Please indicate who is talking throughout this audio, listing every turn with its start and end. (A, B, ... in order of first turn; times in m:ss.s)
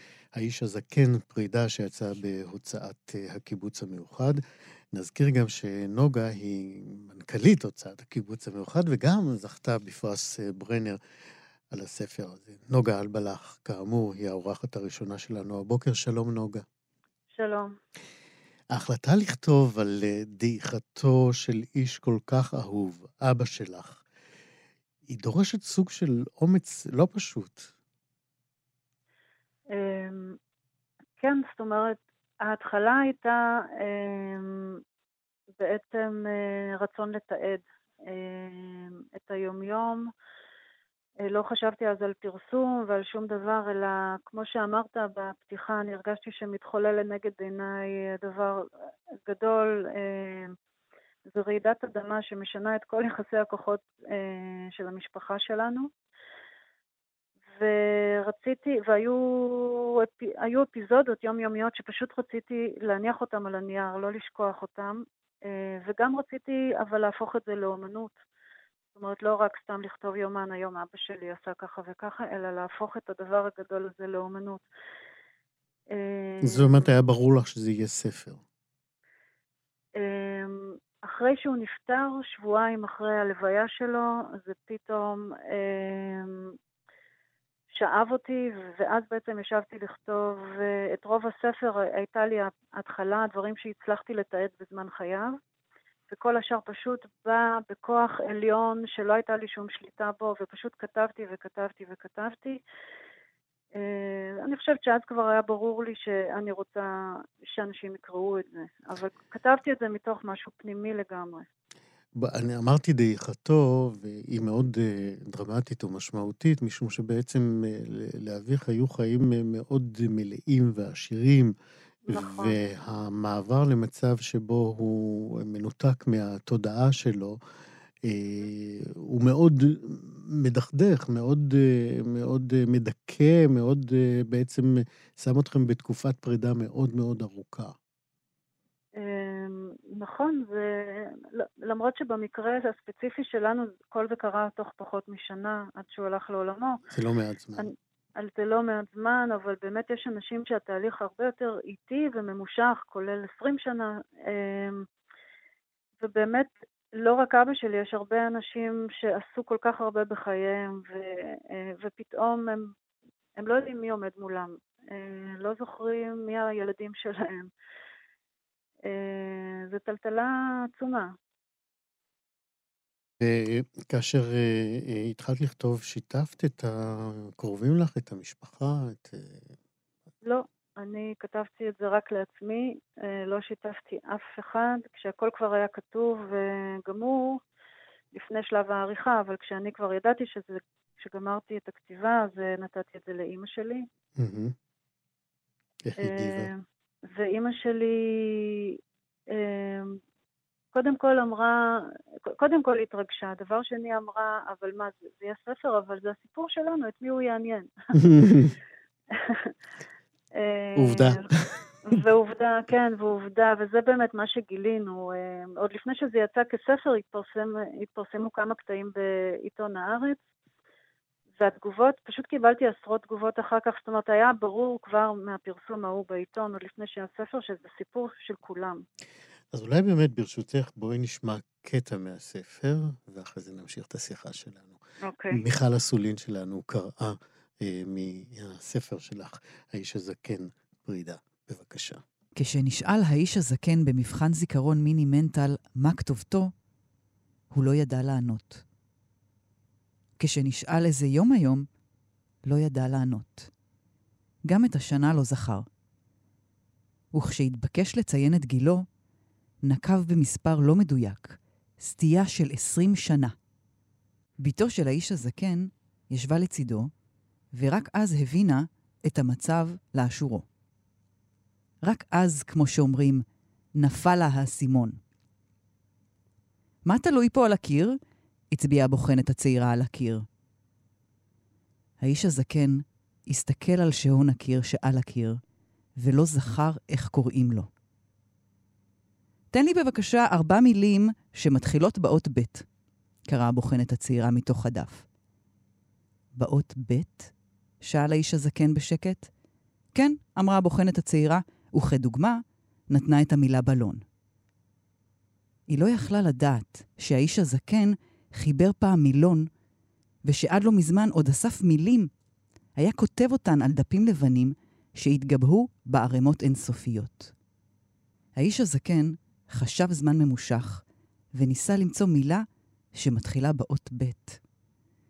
0:00.4-0:04.4 A
0:04.9-0:11.0 A
0:11.7-0:16.6 A
0:17.4-0:17.7 B
0:18.7-0:24.0 A
0:25.1-0:27.7 A
0:29.7-0:30.4 B
0:31.2-0:34.8 B
0:35.6-0:40.1 B
0:41.3-0:48.6 B
0:49.2-0:50.5 B
0:51.3-0:55.9 B
0:57.6-1:08.2 B
1:09.0-1:14.6 B
1:15.9-1:16.9 B
1:16.4-1:18.4 A
1:20.0-1:26.6 B
1:27.7-1:35.4 B
1:36.1-1:42.6 B
1:43.8-1:51.5 B
1:52.2-2:01.5 A
2:02.1-2:02.6 B
2:02.1-2:07.4 A
2:08.0-2:17.8 A
2:19.0-2:26.8 B
2:26.9-2:27.7 A
2:27.6-2:34.9 B
2:36.0-2:42.7 B
2:43.4-2:47.5 B
2:48.9-2:51.1 B
2:53.2-2:59.5 A
3:00.2-3:07.4 B
3:08.1-3:13.8 B
3:14.2-3:14.6 A
3:15.8-3:16.5 A
3:16.0-3:16.5 B
3:17.1-3:18.8 B
3:19.3-3:20.0 B
3:20.7-3:28.2 B
3:28.0-3:28.6 A
3:30.4-3:31.3 B
3:30.8-3:31.6 A
3:31.8-3:40.2 B
3:41.4-3:48.8 B
3:49.5-3:54.8 A
3:55.0-3:55.4 B
3:55.3-4:02.0 A
4:02.4-4:06.5 C
4:07.5-4:08.6 C
4:10.2-4:11.7 C
4:12.4-4:13.5 C
4:14.5-4:15.7 C
4:17.1-4:18.8 C
4:19.6-4:23.4 C
4:24.4-4:26.9 C
4:27.6-4:30.4 C
4:31.8-4:33.2 C
4:33.8-4:35.0 C
4:36.8-4:38.0 C
4:38.5-4:40.3 C
4:42.0-4:45.4 C
4:46.0-4:47.7 C
4:49.5-4:52.7 C
4:53.3-4:55.1 C
4:56.4-4:59.3 C
4:59.9-5:04.0 C
5:05.7-5:09.5 C
5:10.2-5:12.1 C
5:12.8-5:17.3 C
5:18.4-5:22.4 C
5:23.0-5:24.4 C